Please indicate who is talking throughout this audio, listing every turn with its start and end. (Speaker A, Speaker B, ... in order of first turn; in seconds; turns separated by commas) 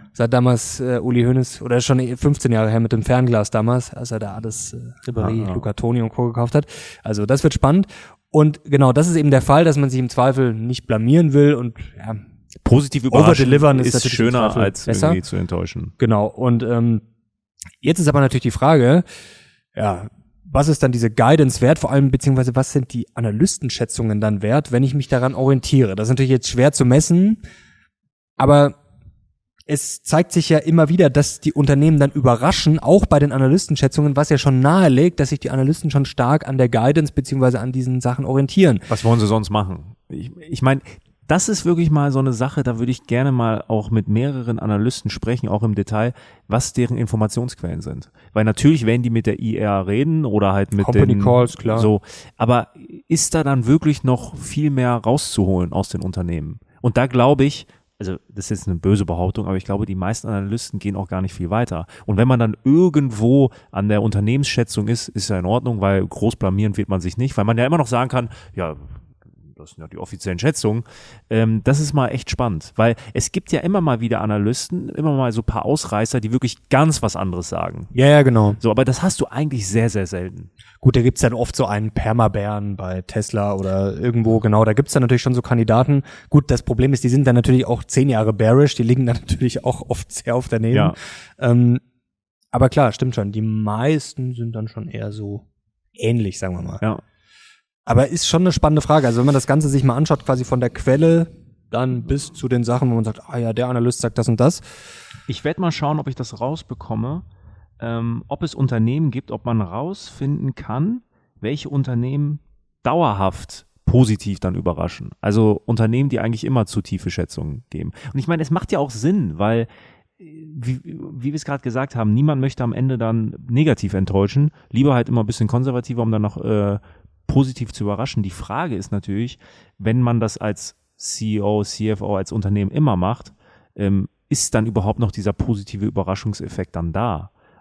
Speaker A: 0.1-12.2, Speaker B: 5.1-5.7, Speaker B: 12.6-15.9, Speaker A: 13.1-15.2, Speaker A: 16.0-17.0, Speaker A: 17.8-19.0, Speaker A: 19.7-27.4, Speaker A: 28.4-28.8, Speaker A: 29.7-38.9, Speaker B: 38.9-77.9, Speaker A: 50.8-51.9, Speaker A: 77.9-78.6, Speaker B: 78.6-80.5, Speaker A: 80.8-91.8, Speaker B: 90.7-91.0, Speaker A: 92.5-95.4, Speaker A: 96.0-96.8, Speaker A: 97.8-104.6, Speaker B: 105.3-107.2, Speaker B: 107.8-119.7, Speaker B: 120.2-137.3